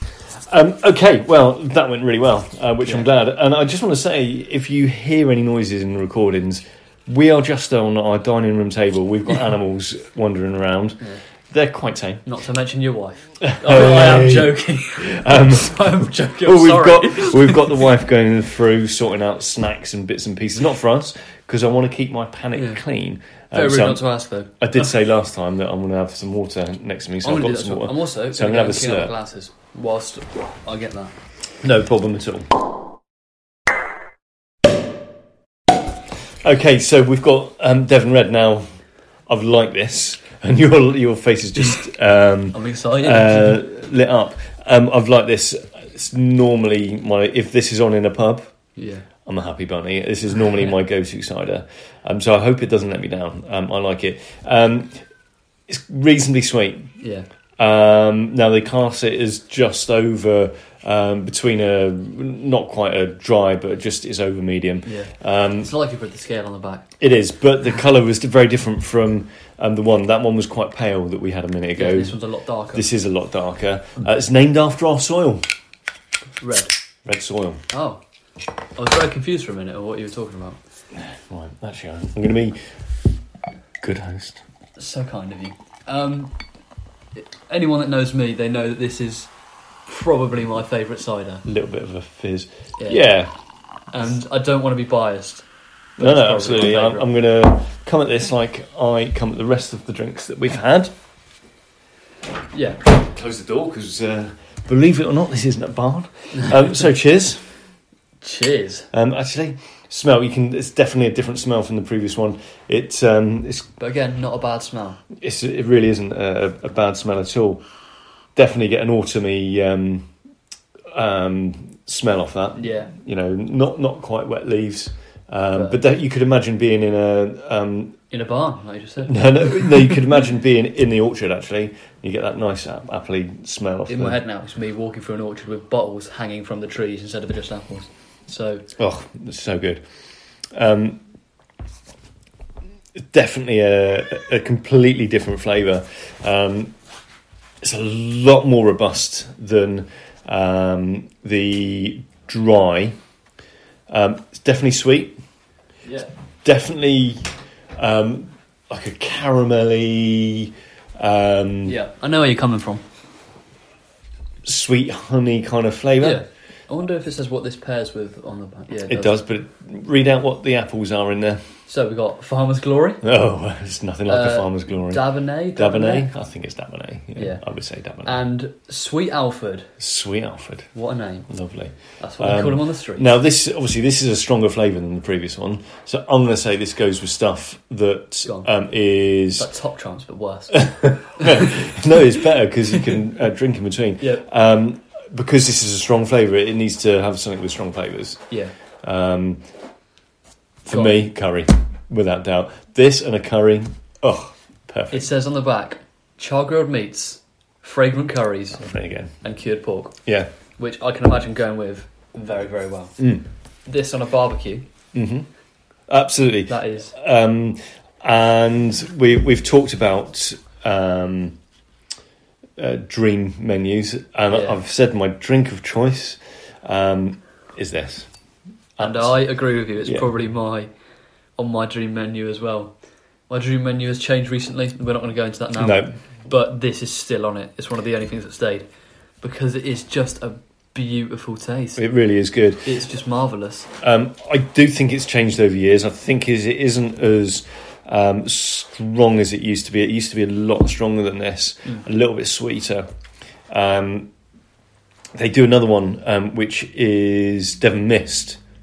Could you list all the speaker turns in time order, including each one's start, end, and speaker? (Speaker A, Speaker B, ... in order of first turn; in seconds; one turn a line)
Speaker A: 0.3-12.2
Speaker B: 12.2-17.8
Speaker A: 13.4-24.0
Speaker B: 22.5-22.8
Speaker B: 23.5-24.9
Speaker A: 24.6-29.1
Speaker B: 27.2-31.1
Speaker A: 31.6-32.6
Speaker A: 36.4-38.7
Speaker A: 39.3-48.5
Speaker B: 42.5-43.6
Speaker B: 48.8-49.1
Speaker A: 49.2-55.0
Speaker A: 55.7-56.9
Speaker B: 57.0-57.3
Speaker A: 57.6-65.7
Speaker B: 64.8-66.9
Speaker A: 67.0-72.2
Speaker B: 71.8-72.9
Speaker A: 72.7-75.5
Speaker B: 76.4-76.7
Speaker A: 77.0-77.6
Speaker B: 77.7-78.0
Speaker B: 78.8-80.6
Speaker A: 80.9-82.6
Speaker A: 83.8-84.4
Speaker B: 84.8-86.3
Speaker B: 87.2-89.3
Speaker B: 89.9-91.4
Speaker A: 91.4-93.3
Speaker B: 92.8-93.0
Speaker B: 93.9-95.4
Speaker B: 96.0-97.1
Speaker A: 96.0-100.9
Speaker B: 102.5-102.8
Speaker A: 102.8-107.5
Speaker B: 108.2-108.9
Speaker A: 108.9-113.7
Speaker B: 113.8-115.0
Speaker A: 115.1-117.6
Speaker A: 118.3-120.1
Speaker A: 120.9-128.0
Speaker B: 122.6-122.9
Speaker B: 125.5-125.8
Speaker B: 128.1-129.9
Speaker A: 129.0-134.2
Speaker B: 133.9-138.6
Speaker A: 138.8-139.8
Speaker A: 140.5-141.0
Speaker A: 143.0-146.7
Speaker A: 147.6-152.9
Speaker A: 153.9-155.2
Speaker B: 155.8-156.1
Speaker A: 156.4-161.8
Speaker B: 161.7-162.8
Speaker A: 164.4-166.2
Speaker B: 166.0-169.2
Speaker A: 168.9-171.4
Speaker B: 171.7-173.0
Speaker A: 173.0-178.2
Speaker B: 174.1-176.1
Speaker B: 177.2-177.4
Speaker B: 178.0-179.7
Speaker A: 179.8-180.7
Speaker B: 180.7-181.3
Speaker A: 181.3-189.5
Speaker B: 182.0-183.1
Speaker B: 189.4-191.7
Speaker A: 190.5-198.2
Speaker B: 194.0-194.2
Speaker A: 198.8-199.4
Speaker A: 200.6-205.1
Speaker B: 200.7-201.0
Speaker B: 204.9-208.6
Speaker A: 208.6-209.1
Speaker B: 209.2-210.0
Speaker B: 210.6-213.0
Speaker A: 213.0-213.2
Speaker B: 213.7-214.7
Speaker A: 214.9-215.3
Speaker A: 215.9-221.4
Speaker B: 216.5-216.9
Speaker A: 222.6-228.1
Speaker B: 224.3-224.6
Speaker A: 228.8-229.2
Speaker B: 228.8-230.7
Speaker A: 229.8-230.1
Speaker B: 231.4-232.7
Speaker B: 233.3-238.7
Speaker A: 235.6-235.9
Speaker B: 239.2-241.8
Speaker A: 241.8-242.7
Speaker B: 242.6-243.7
Speaker A: 243.8-252.9
Speaker A: 253.5-254.1
Speaker A: 255.1-258.4